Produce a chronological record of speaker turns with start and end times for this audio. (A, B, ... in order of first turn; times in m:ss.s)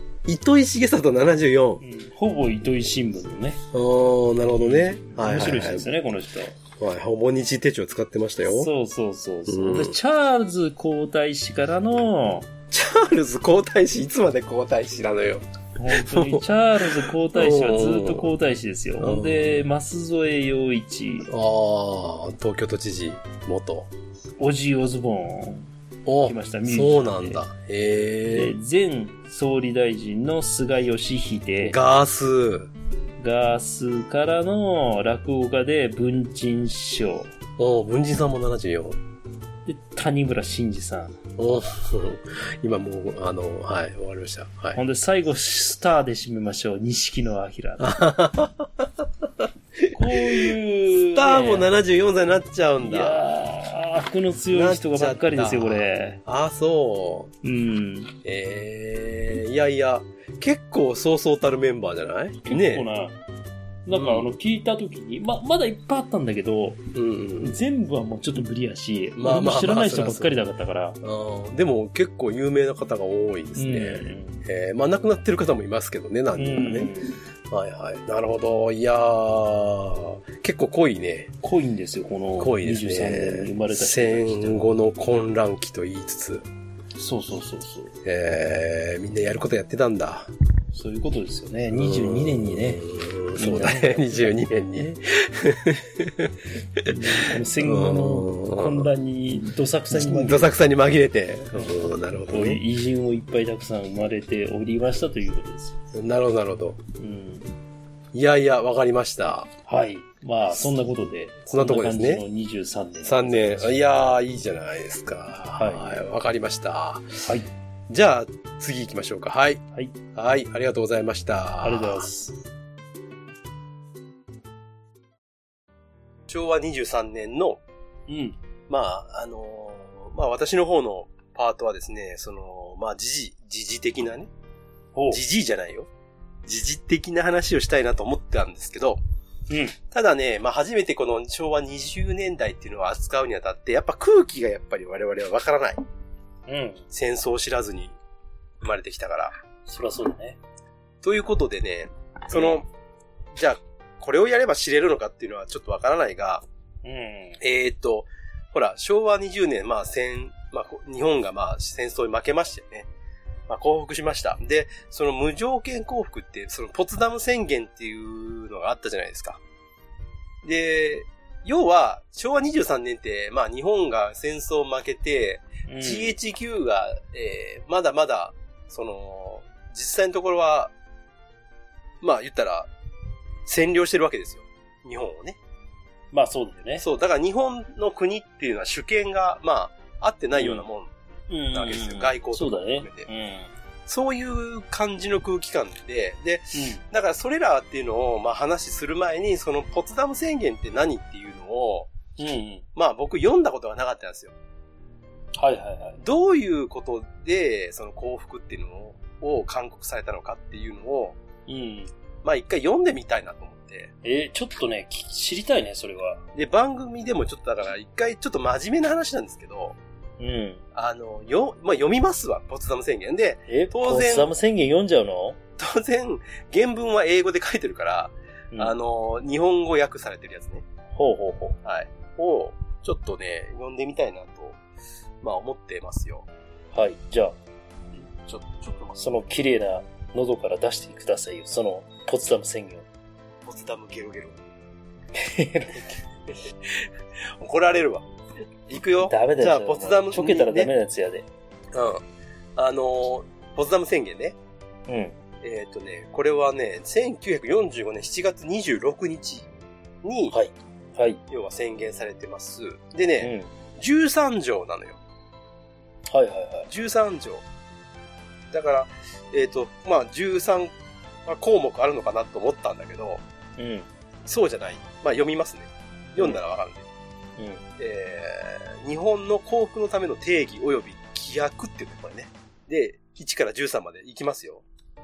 0:00.2-0:01.8 A
0:01.8-0:03.6 B
0:03.7-0:05.9 A
0:04.5-0:06.6 B
0:06.8-0:08.7 A
0:08.4-0:12.5 B
0:09.5-0:10.0 A
0:12.7-0:18.3 A
0:15.8-0:21.3 B
0:19.0-0:19.6 A
0:21.3-0:23.9 A
0:24.4-0:25.7 B
0:26.0-0:28.5 A
0:26.2-0:27.4 B
0:28.3-0:31.8 B
0:31.6-0:32.7 A
0:33.2-0:37.3 B
0:37.6-0:39.0 A
0:39.6-0:41.2 B
0:41.4-0:44.8 A
0:44.7-0:47.9 B
0:47.8-0:50.5 A
0:49.9-0:51.7 B
0:51.1-0:53.2 A
0:52.8-0:56.2 B
0:54.5-0:57.3 A
0:57.4-0:58.1 B
0:58.2-1:02.8 A
1:02.4-1:03.2 B
1:03.8-1:06.8 B
1:03.9-1:04.3 A
1:06.9-1:07.6 A
1:07.4-1:11.0 B
1:09.2-1:10.3 A
1:11.0-1:16.9 A
1:13.6-1:14.4 B
1:16.3-1:17.2 B
1:17.5-1:21.3 A
1:21.4-1:24.7 B
1:22.4-1:26.4 A
1:27.0-1:27.9 B
1:28.0-1:30.3 A
1:30.7-1:32.8 B
1:31.7-1:38.9 A
1:33.4-1:34.4 B
1:36.9-1:40.5 B
1:39.9-1:42.6 A
1:41.5-1:45.8 B
1:45.9-1:46.8 A
1:47.0-1:47.5 B
1:48.1-1:49.5 A
1:49.7-1:53.7 B
1:51.5-1:52.2 A
1:53.0-1:57.2 A
1:55.6-1:55.9 B
1:57.2-1:57.5 B
1:57.9-1:59.6 A
2:00.1-2:02.1 A
2:01.6-2:02.4 B
2:06.3-2:07.6 A
2:08.1-2:08.4 B
2:08.7-2:14.3 A
2:14.9-2:15.2 B
2:15.1-2:15.9 A
2:16.4-2:19.0 A
2:19.5-2:19.8 B
2:19.9-2:25.8 A
2:26.5-2:26.8 B
2:26.9-2:27.9 A
2:28.6-2:29.4 A
2:29.6-2:30.4 B
2:31.0-2:32.7 A
2:32.3-2:32.6 B
2:33.3-2:36.4 A
2:36.8-2:37.4 B
2:37.4-2:42.9 A
2:43.5-2:49.4 A
2:50.4-3:00.7 A
2:55.6-2:56.2 B
3:02.0-3:02.7 A
3:03.4-3:05.4 A
3:06.1-3:06.8 B
3:06.8-3:10.9 A
3:10.4-3:10.6 B
3:11.3-3:13.5 B
3:11.5-3:13.1 A
3:13.8-3:21.9 A
3:16.5-3:16.8 B
3:22.2-3:22.6 B
3:22.7-3:24.3 A
3:25.4-3:26.0 B
3:26.0-3:31.2 A
3:31.5-3:31.9 B
3:32.2-3:33.9 A
3:34.0-3:36.2 B
3:36.3-3:39.8 A
3:40.2-3:40.6 B
3:40.7-3:44.3 A
3:43.5-3:45.4 B
3:45.6-3:50.6 A
3:50.9-3:51.6 B
3:51.6-3:54.6 A
3:55.2-3:56.3 A
3:56.7-3:57.4 B
3:58.0-3:59.0 A
3:59.0-4:02.8 B
4:03.4-4:04.4 A
4:05.2-4:06.0 B
4:07.4-4:08.1 A
4:08.7-4:10.7 A
4:09.0-4:11.3 B
4:11.7-4:12.0 A
4:12.6-4:14.4 A
4:14.9-4:15.2 B
4:15.4-4:19.5 A
4:20.0-4:20.4 A
4:20.3-4:21.2 B
4:21.3-4:25.0 A
4:23.2-4:23.5 B
4:26.1-4:26.7 B
4:26.7-4:27.4 A
4:28.5-4:30.7 A
4:31.2-4:33.2 A
4:33.6-4:33.9 B
4:34.2-4:36.8 A
4:36.1-4:36.4 B
4:37.4-4:37.6 B
4:37.8-4:44.6 A